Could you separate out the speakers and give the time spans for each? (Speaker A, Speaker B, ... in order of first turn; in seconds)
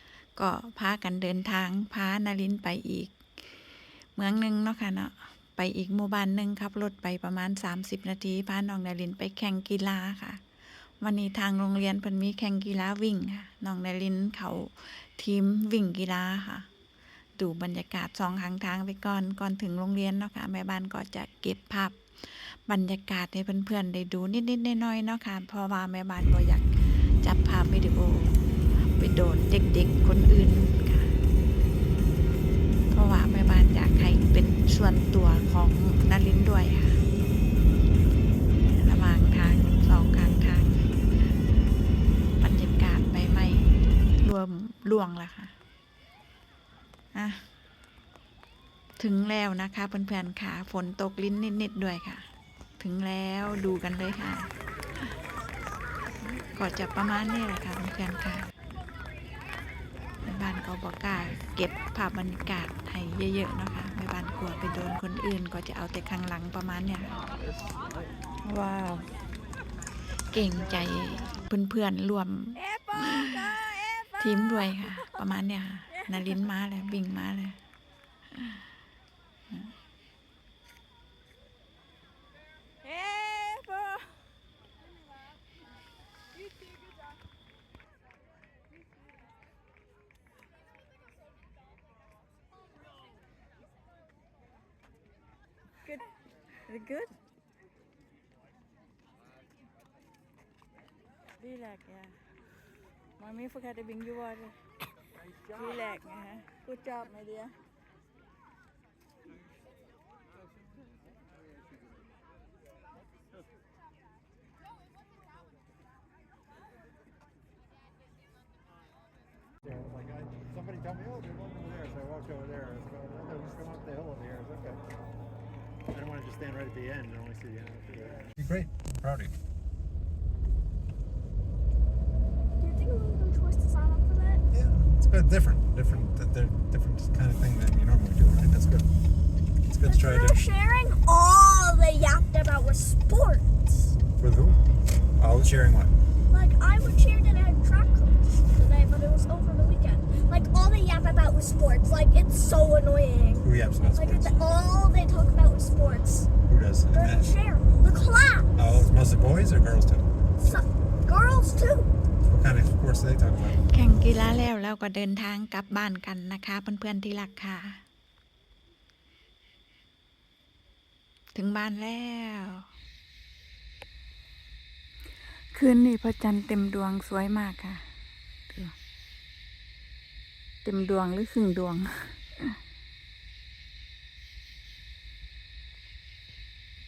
Speaker A: 0.3-3.6, 4.1-10.4, 11.0-16.7, 17.4-31.1, 32.9-37.0, 38.7-40.9, 42.4-45.5, 47.1-47.5, 49.0-52.2, 52.8-54.5, 56.2-58.5, 60.2-67.2, 68.4-69.1, 70.3-73.5, 74.2-77.6, 78.3-78.6, 82.8-84.0, 95.8-97.2, 101.4-102.1, 103.2-104.7, 105.3-107.5, 163.7-167.8, 171.3-172.7, 175.5-177.8, 178.5-178.7, 180.6-182.6
Speaker B: 72.7-74.0, 132.6-134.4, 139.8-143.4, 146.3-156.3, 156.9-158.5, 160.4-161.9
Speaker C: 119.7-124.8, 125.9-128.3
Speaker D: 128.4-129.3, 134.5-138.9, 139.7-140.4, 144.2-144.6, 145.2-145.9, 153.4-154.4, 156.5-157.3, 158.6-160.1, 162.3-163.6